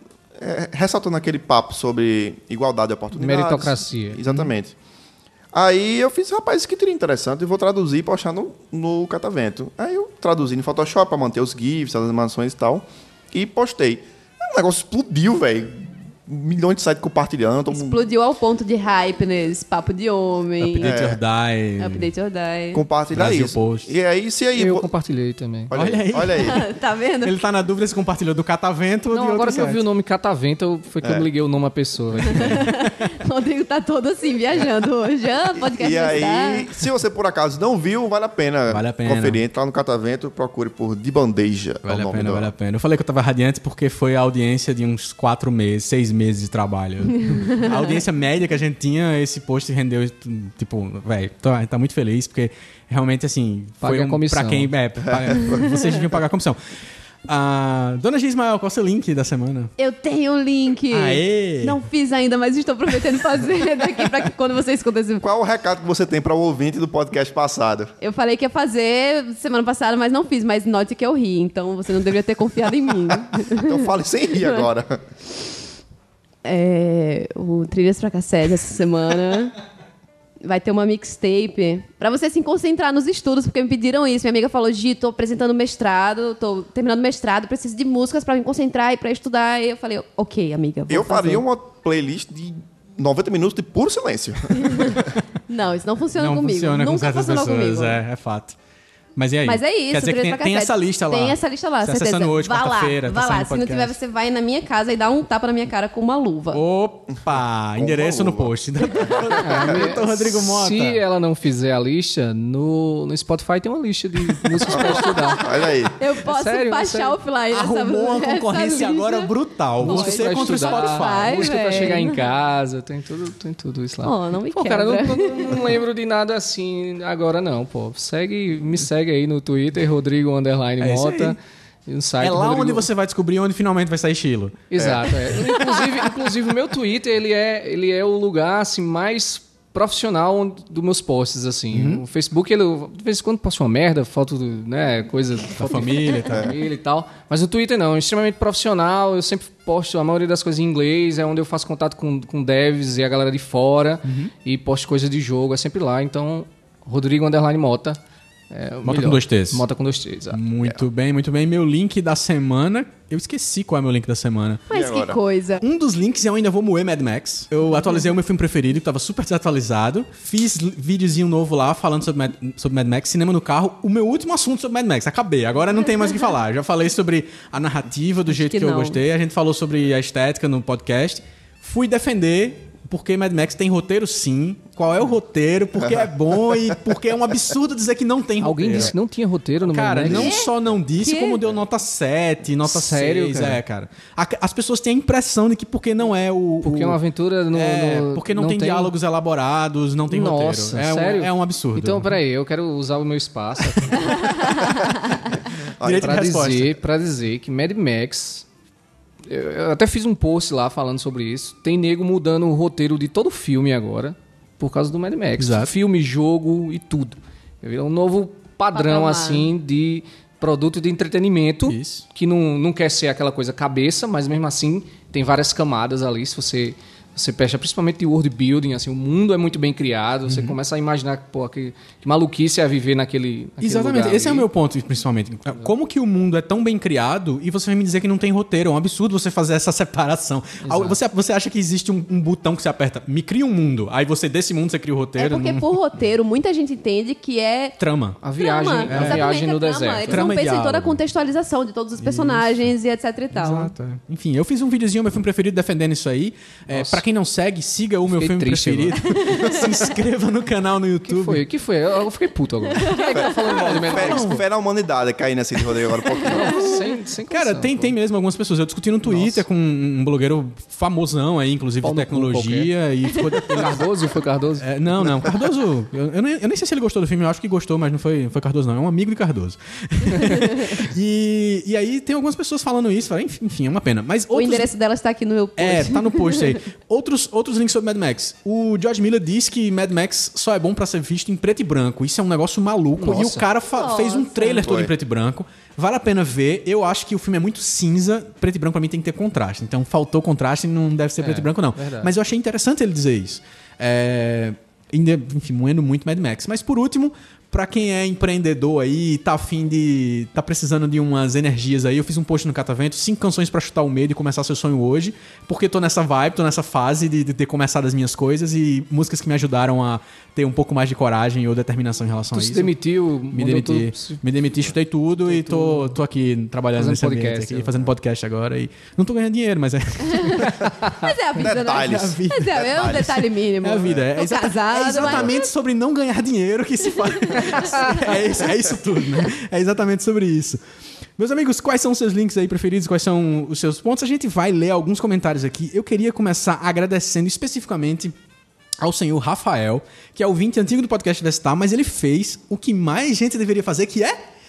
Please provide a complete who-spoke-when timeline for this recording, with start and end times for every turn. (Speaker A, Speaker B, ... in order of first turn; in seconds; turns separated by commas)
Speaker A: 0.4-4.8, Speaker B: 3.1-4.2, Speaker A: 5.5-18.0, Speaker C: 17.7-21.0, Speaker D: 20.6-22.1, Speaker A: 20.8-21.2, Speaker C: 21.8-22.8, Speaker A: 22.7-24.9, Speaker D: 23.1-23.9, Speaker B: 24.6-25.7, Speaker A: 25.7-26.6, Speaker D: 25.7-26.6, Speaker C: 26.3-27.4, Speaker D: 27.2-29.8, Speaker B: 29.1-32.6, Speaker A: 31.0-31.3, Speaker D: 32.2-32.8, Speaker C: 32.3-36.7, Speaker A: 35.6-42.5, Speaker D: 38.7-39.4, Speaker D: 41.9-56.6, Speaker B: 53.8-54.7, Speaker A: 55.0-55.6, Speaker D: 57.3-59.7, Speaker C: 59.8-65.2, Speaker D: 60.9-61.8, Speaker A: 65.2-67.9, Speaker C: 68.0-73.9, Speaker A: 73.5-75.0, Speaker C: 76.4-79.6, Speaker C: 80.4-91.4, Speaker A: 90.9-95.1, Speaker C: 94.6-98.0, Speaker D: 96.2-98.6, Speaker D: 99.2-104.0, Speaker C: 99.5-106.6, Speaker D: 106.5-111.0, Speaker A: 107.8-109.2, Speaker C: 108.9-109.6, Speaker B: 109.4-115.5, Speaker A: 114.7-116.0, Speaker C: 114.8-122.2, Speaker B: 116.2-117.2, Speaker D: 117.5-122.0, Speaker B: 119.8-132.9, Speaker C: 124.0-125.6, Speaker D: 130.8-131.4, Speaker D: 132.2-134.6, Speaker B: 134.7-158.0, Speaker A: 134.8-135.2, Speaker D: 141.7-142.0, Speaker D: 145.6-146.5, Speaker A: 146.3-146.6, Speaker D: 154.1-154.3, Speaker B: 158.5-160.4, Speaker D: 158.8-159.6, Speaker D: 160.3-164.6, Speaker C: 164.7-165.6, Speaker A: 164.7-165.2, Speaker D: 165.6-188.9, Speaker C: 178.3-179.0, Speaker A: 185.8-186.8, Speaker B: 188.4-190.3, Speaker D: 189.7-197.0, Speaker C: 190.1-191.4, Speaker B: 192.6-193.6, Speaker B: 196.6-198.9, Speaker D: 197.5-202.2, Speaker B: 200.1-204.5, Speaker C: 204.4-205.1, Speaker A: 205.8-206.5, Speaker D: 205.8-206.7, Speaker B: 205.8-208.5, Speaker B: 209.2-234.5, Speaker D: 215.4-215.7, Speaker C: 218.7-219.5, Speaker D: 221.7-222.0, Speaker D: 230.3-230.6, Speaker D: 233.6-245.7, Speaker B: 240.6-241.0, Speaker C: 245.2-247.8, Speaker D: 247.8-248.2, Speaker B: 248.2-250.3, Speaker C: 248.4-253.7, Speaker D: 248.9-249.2, Speaker D: 250.1-251.0, Speaker D: 252.0-252.6, Speaker D: 253.3-261.4, Speaker B: 256.7-257.0, Speaker B: 258.1-259.2, Speaker C: 259.2-259.6, Speaker B: 261.1-264.4, Speaker C: 262.8-263.8, Speaker A: 263.1-266.7, Speaker D: 263.9-264.4, Speaker B: 266.3-267.9, Speaker D: 267.3-273.9, Speaker B: 269.1-269.4, Speaker B: 271.8-272.7, Speaker B: 273.4-274.7, Speaker D: 274.6-284.7, Speaker C: 284.3-286.6, Speaker D: 285.6-322.7, Speaker B: 293.0-293.5, Speaker C: 293.7-294.7, Speaker A: 294.6-294.9, Speaker B: 301.2-302.1, Speaker B: 322.3-324.2, Speaker D: 323.3-330.8, Speaker B: 325.2-326.0, Speaker B: 326.8-327.8, Speaker C: 330.1-330.4, Speaker C: 331.0-335.5, Speaker A: 331.4-333.1, Speaker D: 331.7-340.6, Speaker A: 334.9-335.3, Speaker C: 337.2-338.4, Speaker B: 337.4-338.1, Speaker D: 341.2-348.1, Speaker D: 348.8-354.2